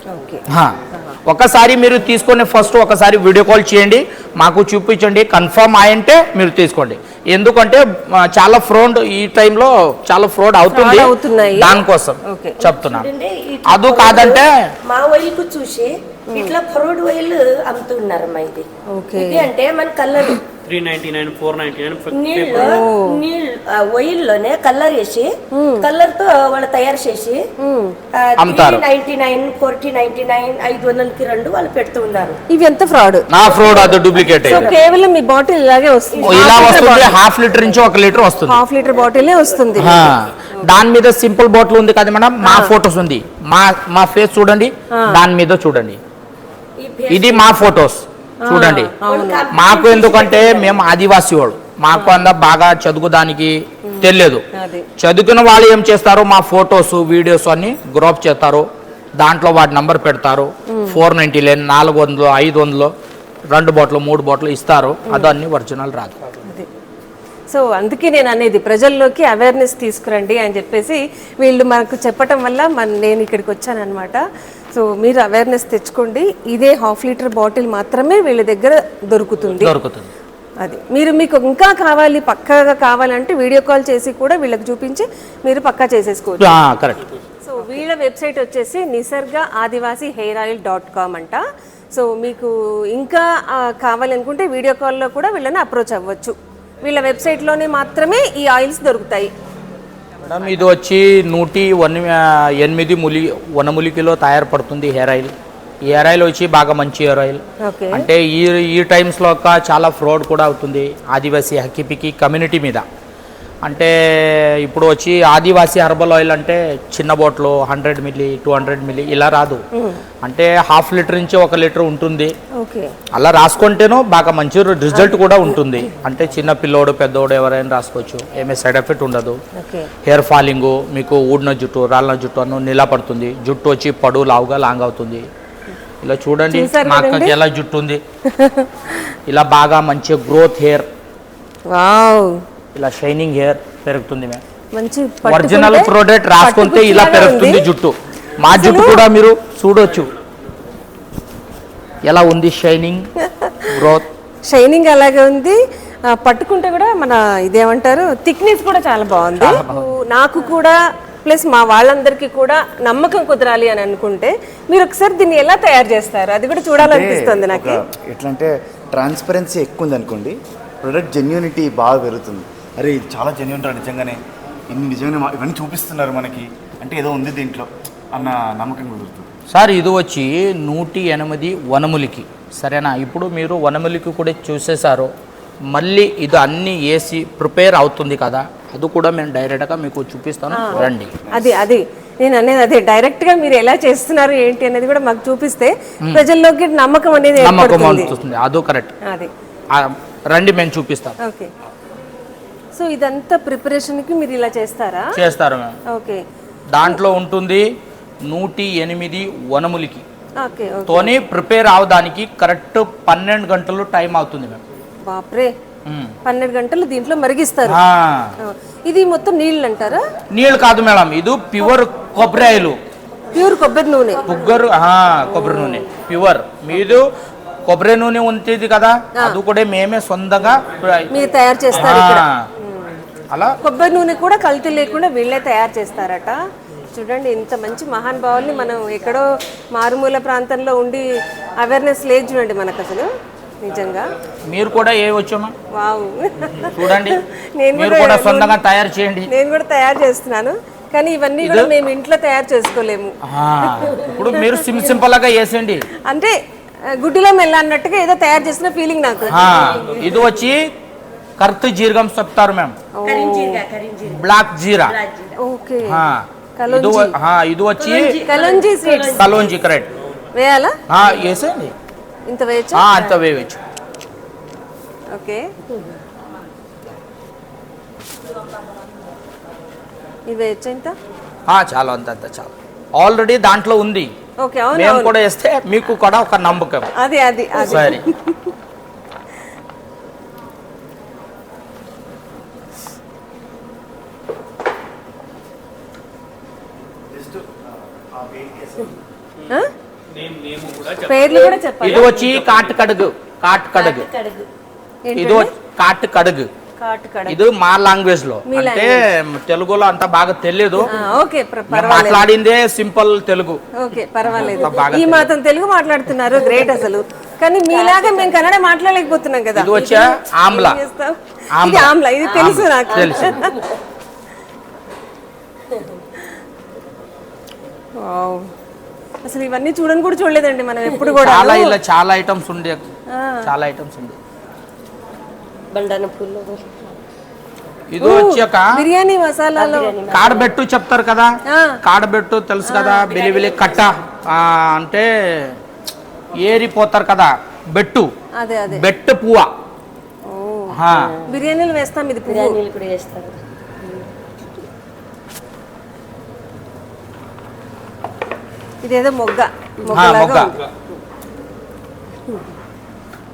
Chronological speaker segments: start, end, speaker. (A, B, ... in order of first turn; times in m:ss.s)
0:00.1-0:01.2 A
0:00.5-0:13.1 B
0:10.7-0:12.6 A
0:12.6-0:20.4 C
0:13.6-0:14.7 B
0:16.3-0:16.6 A
0:18.9-0:19.5 A
0:20.6-0:22.8 D
0:22.1-0:27.4 C
0:22.5-0:23.2 A
0:25.5-0:25.9 A
0:27.6-0:28.0 A
0:28.1-0:32.4 C
0:28.4-0:28.8 B
0:32.5-0:33.3 A
0:33.3-0:34.7 B
0:33.4-0:34.8 C
0:34.4-0:37.2 A
0:36.1-0:37.9 C
0:36.2-0:38.6 B
0:38.4-0:40.8 A
0:38.7-0:40.2 C
0:39.8-0:46.0 B
0:42.4-0:42.7 A
0:44.9-0:45.2 A
0:46.8-0:47.6 C
0:47.1-0:49.0 B
0:48.4-0:49.5 A
0:49.0-0:50.8 C
0:49.5-0:54.4 B
0:51.9-0:52.2 A
0:53.9-0:54.9 A
0:55.0-0:58.7 B
0:59.2-1:02.9 B
1:00.7-1:01.0 A
1:03.5-1:06.2 B
1:05.1-1:05.4 A
1:07.5-1:19.7 A
1:19.5-1:20.1 B
1:20.6-1:26.5 A
1:26.4-1:27.0 B
1:27.4-1:39.3 A
1:40.2-1:47.4 B
1:47.6-1:48.1 A
1:47.9-1:52.8 B
1:53.6-1:59.6 B
1:59.7-2:00.0 A
2:00.2-2:02.3 B
2:02.5-2:02.9 A
2:03.1-2:09.4 B
2:04.9-2:05.9 A
2:09.6-2:09.9 A
2:10.0-2:15.3 B
2:16.0-2:18.0 B
2:16.5-2:17.4 A
2:18.3-2:19.0 A
2:19.3-2:20.9 B
2:21.7-2:22.4 A
2:22.7-2:24.4 B
2:24.7-2:27.7 A
2:25.2-2:30.1 B
2:28.5-2:29.0 A
2:29.9-2:30.4 D
2:32.0-2:33.1 B
2:33.3-2:33.7 A
2:33.7-2:34.0 B
2:34.5-2:47.8 A
2:39.4-2:39.8 B
2:46.8-2:54.2 E
2:54.7-2:59.3 E
2:59.5-3:05.1 B
3:05.7-3:11.1 B
3:10.5-3:18.1 A
3:10.8-3:11.5 E
3:17.4-3:18.9 B
3:19.7-3:21.2 B
3:21.2-3:21.5 A
3:22.7-3:25.2 A
3:25.2-3:25.7 B
3:25.9-3:26.2 A
3:26.7-3:27.7 B
3:28.3-3:30.0 B
3:30.4-3:31.2 A
3:30.8-3:34.6 B
3:35.1-3:35.5 A
3:35.8-3:36.1 B
3:36.2-3:37.8 A
3:37.6-3:38.3 B
3:38.4-3:40.0 A
3:40.3-3:42.8 B
3:43.3-3:44.3 A
3:44.2-3:47.1 B
3:45.3-3:45.8 A
3:47.7-3:51.1 B
3:51.1-3:52.7 A
3:51.7-3:52.4 B
3:53.6-3:56.4 A
3:56.9-4:01.1 A
4:01.6-4:03.1 A
4:03.6-4:04.1 A
4:04.5-4:05.5 B
4:05.7-4:08.6 A
4:06.7-4:07.2 B
4:07.7-4:09.3 B
4:09.3-4:14.6 A
4:11.4-4:11.7 B
4:13.2-4:15.8 B
4:13.8-4:14.2 C
4:16.1-4:16.3 A
4:16.9-4:19.8 A
4:19.3-4:20.4 C
4:19.3-4:20.7 B
4:21.4-4:22.7 B
4:22.9-4:23.6 A
4:23.0-4:25.4 C
4:24.1-4:25.0 B
4:25.4-4:26.0 A
4:25.9-4:28.2 B
4:26.6-4:27.1 A
4:27.8-4:29.6 C
4:28.2-4:29.4 A
4:29.1-4:29.9 B
4:29.8-4:30.3 D
4:30.3-4:30.8 A
4:30.9-4:31.7 B
4:32.3-4:32.8 A
4:32.7-4:33.6 B
4:35.1-4:35.4 A
4:35.7-4:36.0 C
4:40.3-4:40.9 A
4:41.5-4:44.1 B
4:44.4-4:45.1 A
4:44.7-4:46.9 B
4:47.0-4:48.4 A
4:47.6-4:48.0 B
4:57.1-4:59.0 E
5:00.1-5:02.9 D
5:01.1-5:02.1 A
5:01.8-5:04.0 B
5:03.7-5:04.5 C
5:05.1-5:05.5 A
5:05.1-5:06.5 B
5:06.8-5:07.4 A
5:07.3-5:10.9 B
5:08.5-5:09.0 A
5:10.8-5:12.3 A
5:11.7-5:13.6 B
5:13.8-5:23.5 A
5:14.2-5:15.3 B
5:16.4-5:16.9 C
5:17.7-5:18.4 C
5:19.5-5:20.8 B
5:21.6-5:23.4 B
5:22.3-5:23.8 C
5:25.7-5:26.0 C
5:28.0-5:28.5 A
5:29.2-5:31.8 A
5:31.2-5:32.8 B
5:33.1-5:33.4 A
5:33.4-5:34.2 B
5:35.7-5:36.6 C
5:37.9-5:38.7 B
5:38.0-5:40.0 A
5:39.5-5:40.5 C
5:40.1-5:41.3 B
5:41.5-5:41.8 A
5:41.8-5:45.6 B
5:42.6-5:43.0 A
5:43.0-5:43.9 C
5:46.3-5:48.1 B
5:48.4-5:48.8 A
5:48.7-5:49.5 B
5:50.2-5:52.6 A
5:50.7-5:51.1 B
5:50.9-5:51.3 C
5:52.3-5:54.1 C
5:58.8-6:00.6 A
5:59.9-6:00.5 B